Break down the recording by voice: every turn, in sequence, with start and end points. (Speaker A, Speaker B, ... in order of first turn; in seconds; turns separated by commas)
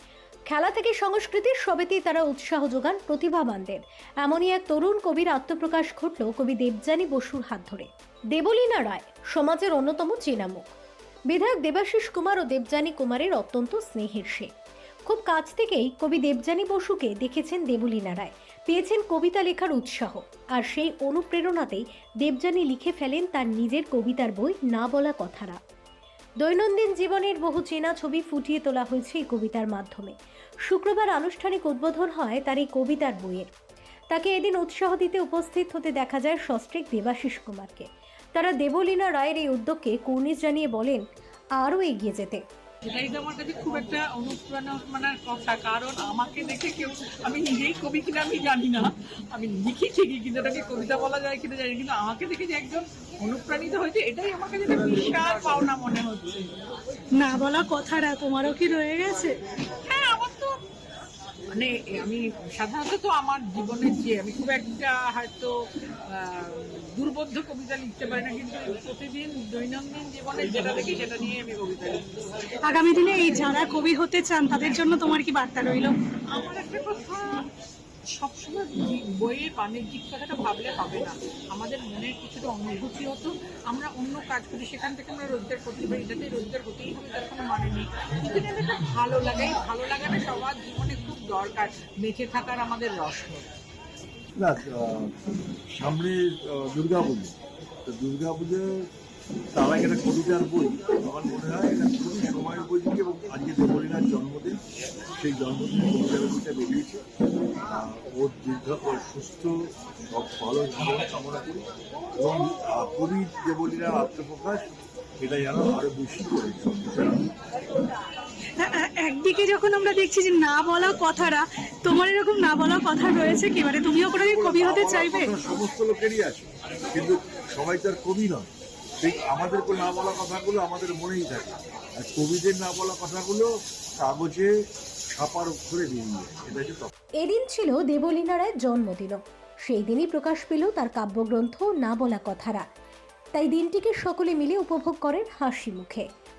Speaker A: 0.5-10.7, Speaker A: 11.3-14.5, Speaker A: 15.1-25.6, Speaker A: 26.4-30.1, Speaker A: 30.7-33.5, Speaker A: 34.1-41.0, Speaker A: 41.6-42.4, Speaker B: 42.9-56.5, Speaker C: 57.2-59.4, Speaker B: 59.8-60.6, Speaker B: 61.5-72.1, Speaker C: 72.6-75.9, Speaker B: 76.3-77.4, Speaker B: 78.1-93.5, Speaker D: 94.4-95.1, Speaker D: 95.7-98.9, Speaker D: 99.5-104.6, Speaker D: 105.1-107.0, Speaker D: 107.7-111.7, Speaker D: 112.2-114.7, Speaker D: 115.2-117.3, Speaker C: 118.6-125.3, Speaker D: 124.2-128.5, Speaker D: 129.0-134.5, Speaker D: 135.1-136.9, Speaker A: 137.2-142.6, Speaker A: 143.3-146.1